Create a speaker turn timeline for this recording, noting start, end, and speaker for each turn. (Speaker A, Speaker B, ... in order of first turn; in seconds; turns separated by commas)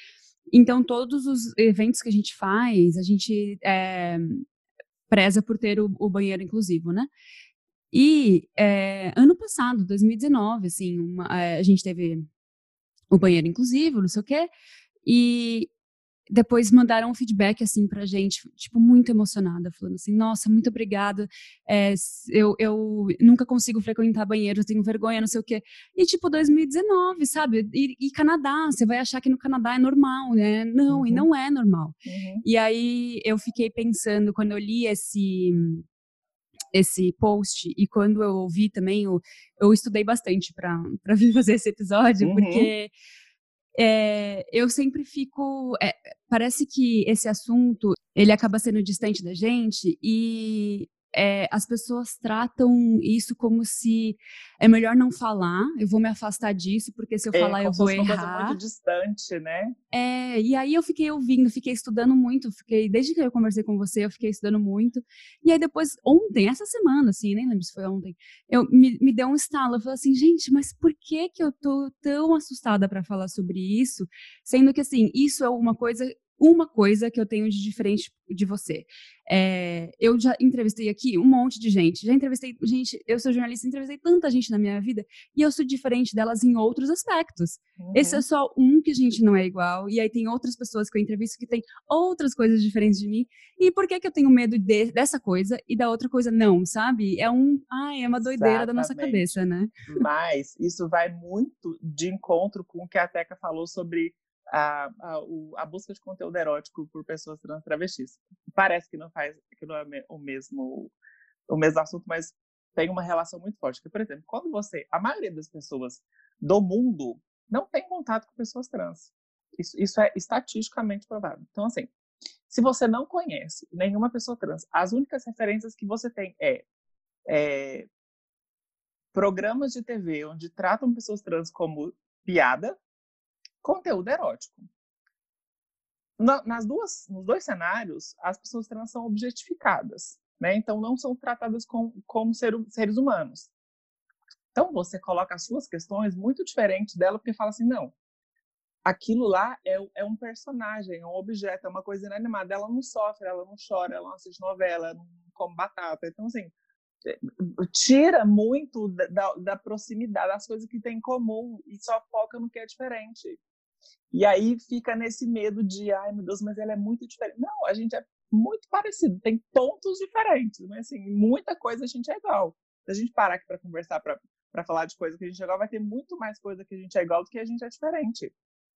Speaker A: 0.5-4.5, Speaker A: 5.1-7.1, Speaker A: 7.9-12.3, Speaker A: 13.1-14.5, Speaker A: 15.0-15.7, Speaker A: 16.3-35.8, Speaker B: 30.9-31.2, Speaker B: 32.0-32.4, Speaker A: 36.7-42.9, Speaker B: 42.2-42.7, Speaker A: 43.7-58.6, Speaker B: 57.3-59.8, Speaker A: 59.9-99.9, Speaker B: 87.8-88.2, Speaker B: 98.2-110.9, Speaker B: 111.5-121.9, Speaker B: 122.5-126.6, Speaker B: 127.3-127.9, Speaker B: 129.1-132.8, Speaker B: 133.6-134.7, Speaker B: 136.2-143.5, Speaker B: 144.5-147.9, Speaker B: 148.8-156.5, Speaker B: 157.0-163.4, Speaker B: 164.1-178.3